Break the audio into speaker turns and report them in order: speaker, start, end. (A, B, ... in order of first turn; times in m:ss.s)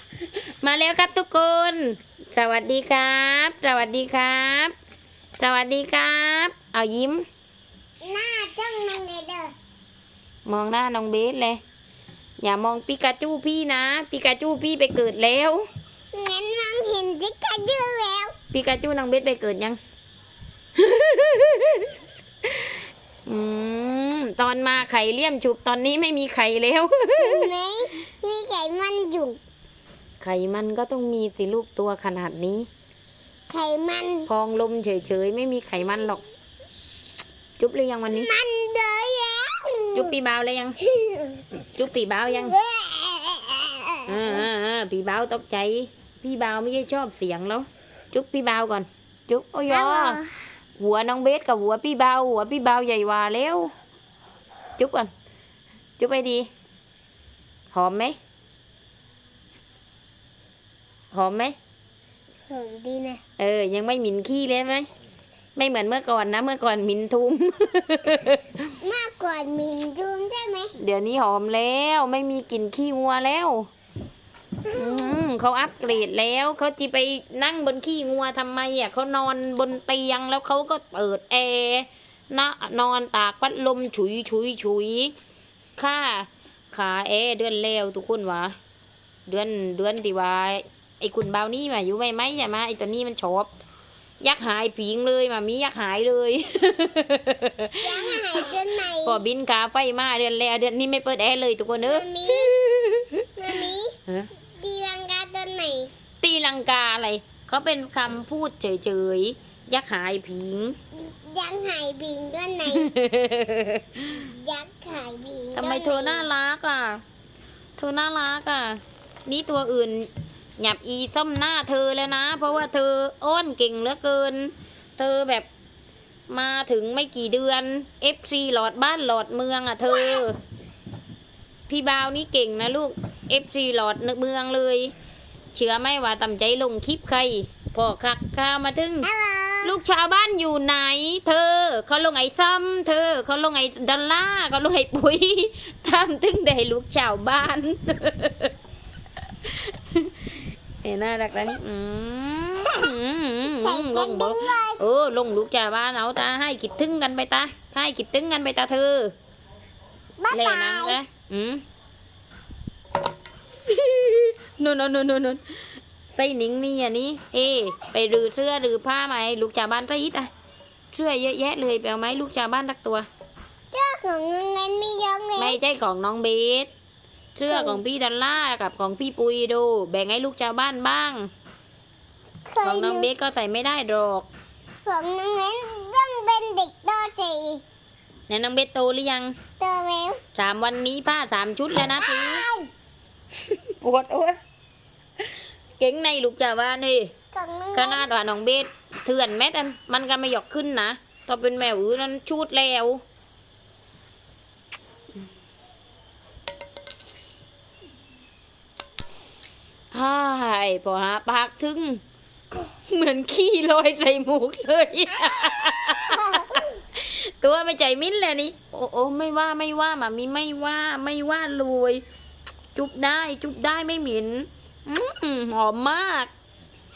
0:00.6-0:04.7 A
0:05.4-0:07.2 A
0:08.0-0:09.5 B
0:10.5-0:11.6 A
0:12.4-0:15.6 A
0:16.1-0:18.3 B
0:18.5-0:19.8 A
0:20.8-0:21.9 A
0:23.3-0:27.5 A
0:27.2-0:29.4 B
0:30.2-0:32.7 A
0:33.5-0:34.3 B
0:34.3-0:36.2 A
0:37.6-0:38.3 A
0:38.1-0:40.1 B
0:39.9-0:40.8 A
0:40.8-0:41.4 B
0:41.8-0:42.5 A
0:42.3-0:44.4 B
0:44.1-0:50.2 A
0:49.7-0:50.4 B
0:50.8-0:53.7 A
0:54.8-0:55.1 A
0:56.0-0:56.5 A
0:57.7-0:58.2 A
1:01.1-1:01.6 A
1:02.5-1:03.2 B
1:03.4-1:04.9 A
1:05.6-1:08.7 A
1:08.8-1:10.7 B
1:10.8-1:13.7 A
1:14.6-1:15.2 B
1:14.7-1:25.1 A
1:25.8-1:28.6 A
1:29.3-1:33.5 A
1:34.2-1:44.3 A
1:37.8-1:39.2 B
1:41.8-1:42.6 B
1:43.4-1:44.0 B
1:44.5-1:45.9 B
1:46.2-1:50.8 A
1:51.0-1:52.9 B
1:52.7-1:54.2 A
1:54.1-1:56.3 B
1:55.5-1:57.0 A
1:57.8-2:05.5 A
2:06.3-2:10.4 A
2:11.7-2:14.9 A
2:15.5-2:19.1 A
2:19.0-2:19.7 B
2:19.6-2:28.5 A
2:29.4-2:39.1 A
2:33.6-2:34.8 B
2:40.2-2:41.0 B
2:40.3-2:41.6 A
2:43.7-2:45.4 A
2:46.1-2:50.3 A
2:50.9-2:53.1 A
2:53.7-2:55.6 B
2:55.4-2:56.7 A
2:57.4-3:01.3 A
2:57.5-2:57.8 B
3:02.5-3:03.1 B
3:02.6-3:04.3 A
3:04.8-3:07.6 B
3:08.3-3:09.3 A
3:09.6-3:10.2 B
3:10.3-3:12.4 A
3:11.9-3:12.7 B
3:13.4-3:14.4 A
3:15.8-3:17.1 A
3:17.3-3:18.1 B
3:17.7-3:23.0 A
3:29.9-3:32.0 A
3:32.9-3:42.0 A
3:36.1-3:36.7 B
3:42.7-3:46.3 A